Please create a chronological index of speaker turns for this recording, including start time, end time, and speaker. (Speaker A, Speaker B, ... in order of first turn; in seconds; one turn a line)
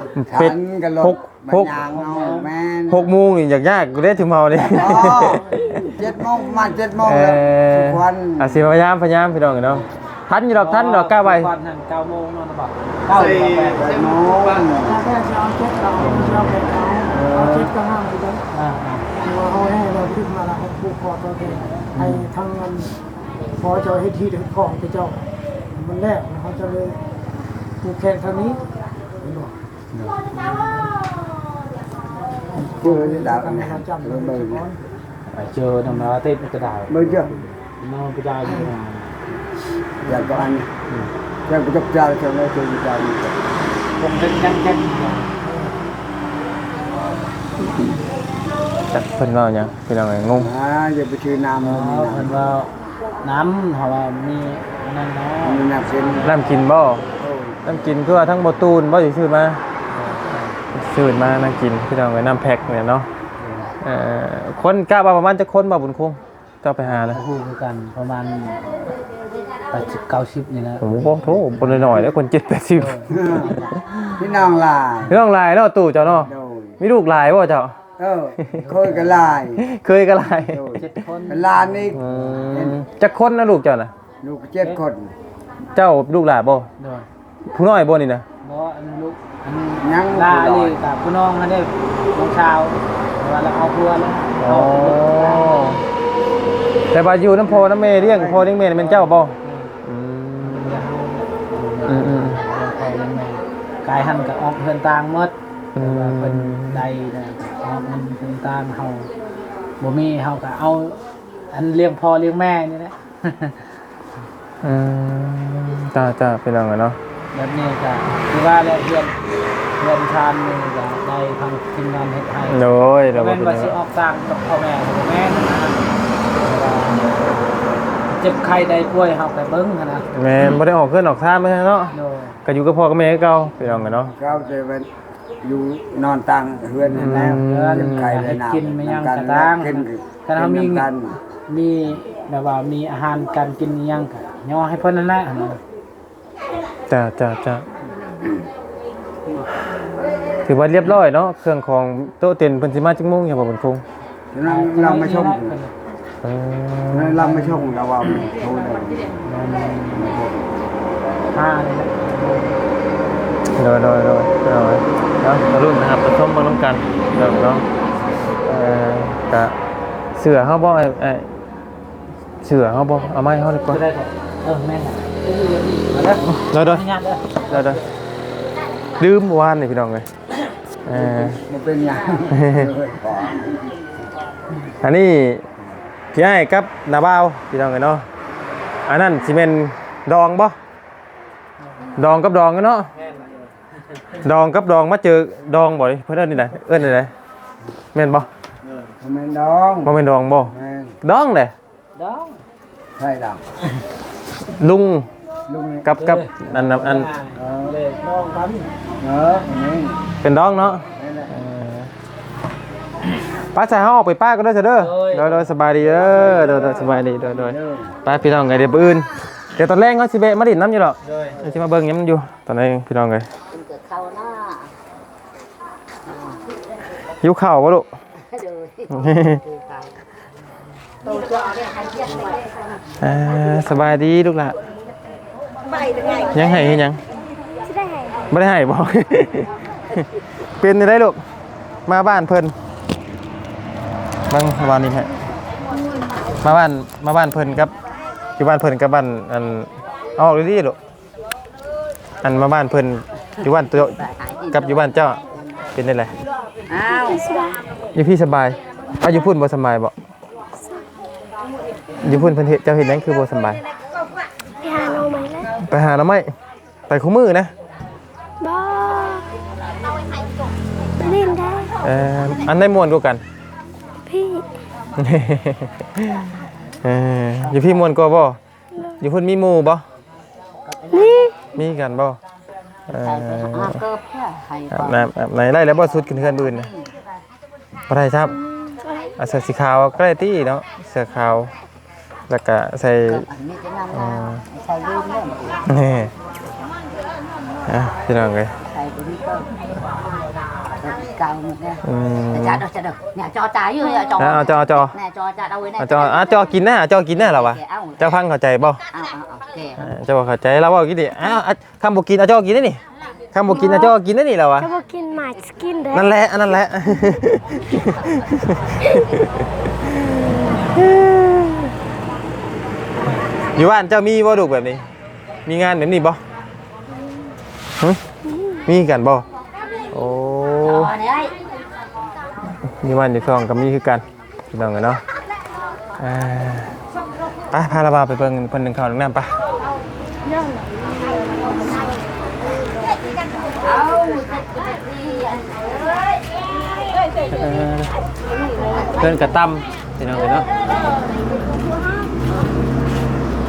Speaker A: 0.1-1.8
Speaker B: 0.3-3.1
Speaker C: 1.9-2.5
Speaker A: 2.9-6.1
Speaker B: 4.7-8.6
Speaker A: 7.0-11.5
Speaker C: 10.5-13.9
Speaker B: 13.8-15.1
Speaker D: 14.8-18.4
Speaker A: 16.0-17.7
Speaker C: 18.5-19.1
Speaker D: 19.2-22.9
Speaker D: 23.6-25.2
Speaker D: 25.7-27.0
Speaker D: 27.8-28.6
Speaker D: 29.2-29.5
Speaker D: 30.3-30.9
Speaker D: 32.6-34.8
Speaker B: 32.7-34.6
Speaker C: 35.3-39.1
Speaker B: 36.9-37.4
Speaker B: 40.0-40.7
Speaker B: 41.5-43.4
Speaker C: 44.0-45.4
Speaker D: 45.5-45.7
Speaker A: 48.9-50.5
Speaker B: 50.4-52.3
Speaker C: 51.6-52.7
Speaker C: 53.2-56.3
Speaker B: 55.4-56.4
Speaker A: 56.2-57.1
Speaker B: 57.2-57.6
Speaker A: 57.6-59.6
Speaker C: 59.9-60.6
Speaker A: 60.7-63.1
Speaker C: 63.4-63.7
Speaker A: 63.8-67.2
Speaker C: 66.8-68.8
Speaker C: 69.7-72.1
Speaker A: 70.8-74.1
Speaker C: 72.7-73.7
Speaker B: 73.1-73.6
Speaker B: 74.1-75.2
Speaker A: 75.1-77.7
Speaker B: 76.2-76.8
Speaker B: 78.0-79.6
Speaker A: 78.4-78.8
Speaker C: 78.6-79.4
Speaker A: 79.5-80.8
Speaker B: 80.4-82.8
Speaker C: 80.8-82.2
Speaker A: 82.0-83.9
Speaker B: 84.2-85.1
Speaker A: 85.7-86.7
Speaker C: 86.8-87.1
Speaker A: 87.5-88.2
Speaker C: 88.4-95.8
Speaker B: 89.8-90.8
Speaker A: 94.4-95.8
Speaker A: 96.9-99.3
Speaker B: 97.6-98.2
Speaker C: 98.2-99.8
Speaker A: 99.8-100.8
Speaker C: 100.4-109.1
Speaker A: 101.9-102.4
Speaker A: 105.8-106.8
Speaker C: 109.8-111.0
Speaker C: 111.5-113.7
Speaker A: 114.6-117.0
Speaker C: 117.3-119.1
Speaker C: 119.8-127.2
Speaker A: 122.5-123.8
Speaker C: 128.1-130.1
Speaker A: 130.1-131.9
Speaker C: 131.9-132.4
Speaker A: 132.4-134.1
Speaker C: 133.6-134.0
Speaker B: 134.1-134.9
Speaker B: 135.4-141.2
Speaker A: 136.9-138.3
Speaker C: 137.4-140.9
Speaker C: 141.5-145.6
Speaker A: 146.9-147.6
Speaker B: 148.2-148.5
Speaker A: 150.4-153.8
Speaker B: 154.3-155.5
Speaker C: 154.4-155.7
Speaker A: 156.2-157.6
Speaker B: 156.9-159.0
Speaker C: 159.2-160.3
Speaker B: 160.0-160.3
Speaker C: 161.3-162.6
Speaker A: 163.5-167.6
Speaker A: 168.4-169.5
Speaker A: 170.2-171.3
Speaker A: 172.4-173.8
Speaker C: 173.7-177.9
Speaker A: 176.2-176.8
Speaker A: 177.5-177.8
Speaker A: 179.0-180.1
Speaker A: 180.8-181.4
Speaker B: 180.9-183.8
Speaker A: 182.3-182.7
Speaker A: 184.8-185.4
Speaker A: 186.1-188.0
Speaker A: 188.8-190.6
Speaker A: 191.9-192.9
Speaker A: 194.2-197.1
Speaker A: 197.9-198.3
Speaker B: 199.0-201.0
Speaker A: 199.8-201.5
Speaker C: 201.9-202.4
Speaker B: 203.0-203.4
Speaker A: 204.5-205.1
Speaker B: 205.5-205.9
Speaker A: 205.8-207.1
Speaker C: 206.0-208.7
Speaker B: 207.3-207.8
Speaker B: 209.0-210.0
Speaker A: 210.2-211.9
Speaker B: 210.9-211.3
Speaker A: 213.4-223.3
Speaker C: 214.8-215.5
Speaker B: 215.8-217.9
Speaker E: 223.5-224.7
Speaker A: 227.2-227.9
Speaker E: 228.3-229.9
Speaker A: 228.9-229.4
Speaker A: 233.0-234.6
Speaker A: 236.1-237.0
Speaker F: 237.6-238.2
Speaker A: 238.3-241.2
Speaker A: 241.9-242.5
Speaker A: 244.3-245.2
Speaker F: 245.8-246.1
Speaker A: 246.4-247.7
Speaker A: 248.4-250.8
Speaker A: 252.2-255.2
Speaker E: 254.1-254.8
Speaker A: 255.7-256.1
Speaker E: 256.7-257.2
Speaker F: 256.8-257.6
Speaker A: 257.9-259.9
Speaker A: 262.0-263.6
Speaker F: 262.0-262.3
Speaker F: 264.6-265.5
Speaker A: 265.6-266.3
Speaker A: 266.9-267.5
Speaker F: 268.4-269.3
Speaker F: 271.0-271.8
Speaker A: 271.8-273.2
Speaker F: 274.1-274.4
Speaker A: 275.0-278.4
Speaker A: 279.0-279.8
Speaker E: 280.7-281.2
Speaker F: 280.9-281.6
Speaker A: 281.4-282.2
Speaker A: 282.9-283.8
Speaker E: 283.1-285.0
Speaker A: 284.7-286.7
Speaker E: 286.1-286.6
Speaker A: 287.9-288.4
Speaker F: 288.5-289.1
Speaker A: 289.2-291.5
Speaker A: 292.3-293.3
Speaker E: 293.2-295.6
Speaker A: 293.9-294.4
Speaker A: 295.6-296.1
Speaker A: 297.7-298.5
Speaker E: 298.6-299.5
Speaker E: 300.8-301.8
Speaker A: 301.8-302.7
Speaker E: 302.4-304.4
Speaker A: 304.1-305.0
Speaker E: 305.0-306.2
Speaker A: 305.8-308.8
Speaker E: 307.2-307.9
Speaker E: 308.9-309.8
Speaker A: 309.8-312.8
Speaker A: 313.3-314.7
Speaker F: 313.5-313.9
Speaker F: 314.6-316.1
Speaker A: 315.9-321.7
Speaker A: 323.5-324.8
Speaker A: 325.4-326.2
Speaker A: 328.6-329.2
Speaker A: 329.9-331.0
Speaker E: 330.6-331.3
Speaker A: 332.8-335.0
Speaker A: 336.0-336.8
Speaker A: 337.5-339.3
Speaker A: 347.3-347.9
Speaker A: 348.9-350.5